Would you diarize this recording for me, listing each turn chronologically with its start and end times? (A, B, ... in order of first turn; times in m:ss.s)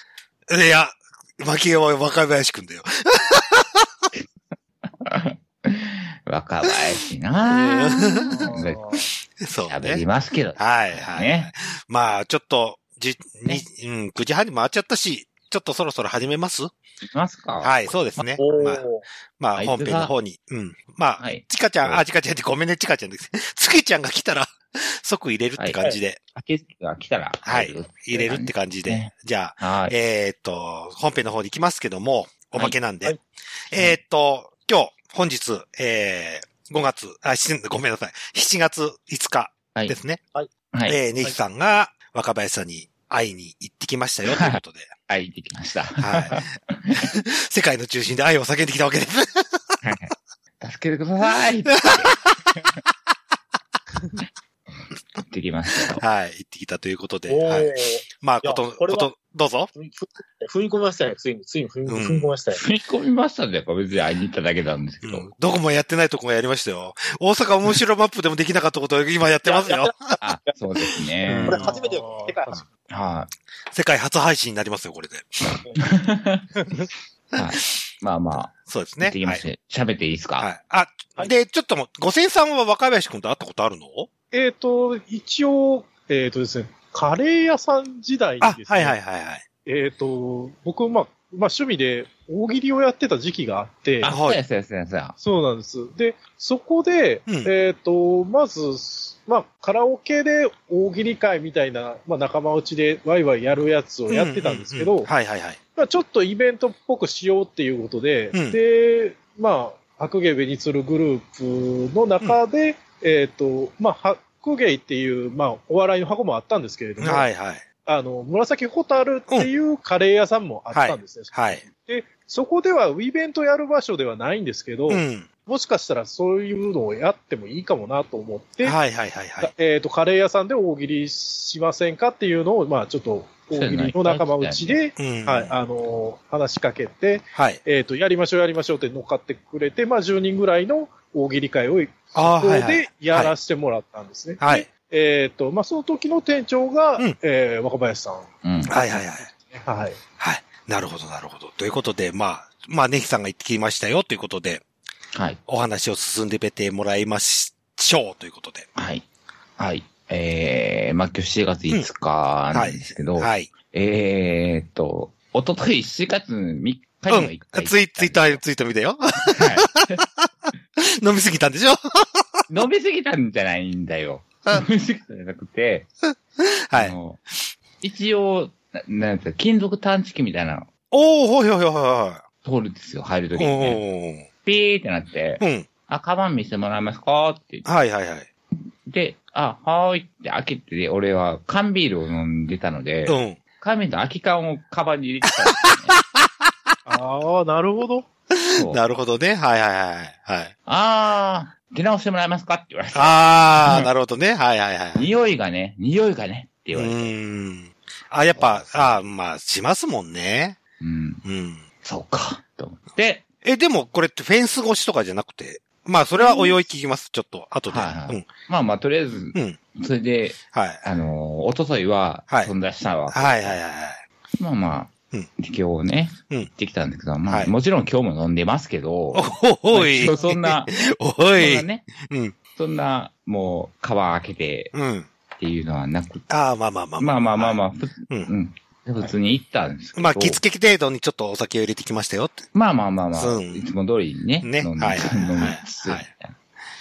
0:00.5-0:03.8 A
0:05.0-0:08.9 B
0:07.5-0:08.5 A
0:08.4-0:09.0 C
0:09.4-0:10.0 A
0:09.6-0:11.5 B
0:10.6-0:16.7 A
0:17.0-0:18.3 B
0:17.6-0:18.8 A
0:18.4-0:19.0 C
0:19.4-0:26.2 A
0:19.6-0:20.1 B
0:21.2-0:22.0 B
0:25.6-0:25.8 B
0:26.3-0:29.9 B
0:27.4-0:33.2 A
0:33.7-0:40.2 A
0:40.7-0:41.0 B
0:40.9-0:45.0 A
0:44.3-0:47.1 B
0:46.0-0:46.5 A
0:47.0-0:49.8 A
0:49.8-0:52.8 B
0:51.8-0:52.4 A
0:55.2-0:56.0 B
0:56.0-0:59.7 A
0:57.3-0:59.1 C
0:59.7-1:02.6 C
1:01.9-1:02.3 A
1:02.5-1:05.3 B
1:05.0-1:10.2 A
1:09.4-1:10.6 C
1:10.2-1:11.7 B
1:11.3-1:11.7 A
1:11.5-1:12.4 D
1:11.5-1:12.6 C
1:12.9-1:13.3 B
1:13.7-1:15.5 A
1:16.0-1:16.5 B
1:17.3-1:17.7 A
1:17.4-1:20.5 B
1:18.7-1:19.4 A
1:20.4-1:24.1 A
1:24.3-1:29.0 D
1:28.4-1:29.4 A
1:29.7-1:34.1 D
1:34.0-1:35.2 B
1:34.1-1:34.4 A
1:35.2-1:45.1 D
1:37.3-1:37.5 A
1:44.1-1:45.6 A
1:45.8-1:57.3 D
1:48.3-1:48.6 A
1:57.0-1:57.6 A
1:57.8-2:08.8 D
2:00.7-2:01.6 A
2:04.9-2:05.3 A
2:08.6-2:09.5 A
2:09.4-2:30.0 D
2:13.5-2:14.8 B
2:15.0-2:15.5 A
2:22.2-2:23.3 A
2:24.4-2:24.7 A
2:28.4-2:28.7 B
2:28.7-2:29.3 A
2:30.2-2:34.6 A
2:35.1-2:35.4 B
2:35.5-2:38.7 A
2:38.8-2:39.0 B
2:39.6-2:48.4 B
2:42.5-2:43.5 A
2:47.1-2:50.0 A
2:49.3-2:50.0 B
2:50.8-2:52.4 A
2:52.5-2:55.9 B
2:56.7-2:57.0 A
2:56.7-2:57.2 B
2:57.8-3:00.7 B
3:00.9-3:02.2 A
3:02.4-3:03.8 B
3:03.4-3:04.3 A
3:04.4-3:07.7 B
3:05.4-3:05.7 A
3:07.7-3:08.3 A
3:08.8-3:16.0 B
3:13.1-3:13.4 A
3:15.9-3:16.3 A
3:16.9-3:18.1 D
3:18.3-3:20.5 A
3:18.6-3:18.8 B
3:20.7-3:23.9 B
3:22.9-3:25.1 A
3:25.0-3:27.1 B
3:26.7-3:30.6 A
3:28.3-3:29.0 B
3:30.8-3:31.2 B
3:31.2-3:31.6 A
3:31.8-3:33.2 B
3:33.4-3:38.3 A
3:37.7-3:43.6 B
3:40.5-3:40.8 A
3:43.1-3:44.0 A
3:44.4-3:50.7 B
3:49.1-3:52.4 A
3:51.4-3:51.9 B
3:52.6-3:54.7 B
3:54.7-3:55.1 A
3:55.4-3:56.3 B
3:56.3-3:58.3 A
3:57.0-4:00.4 B
4:00.0-4:02.5 A
4:02.5-4:06.4 B
4:03.2-4:03.7 A
4:04.4-4:06.1 A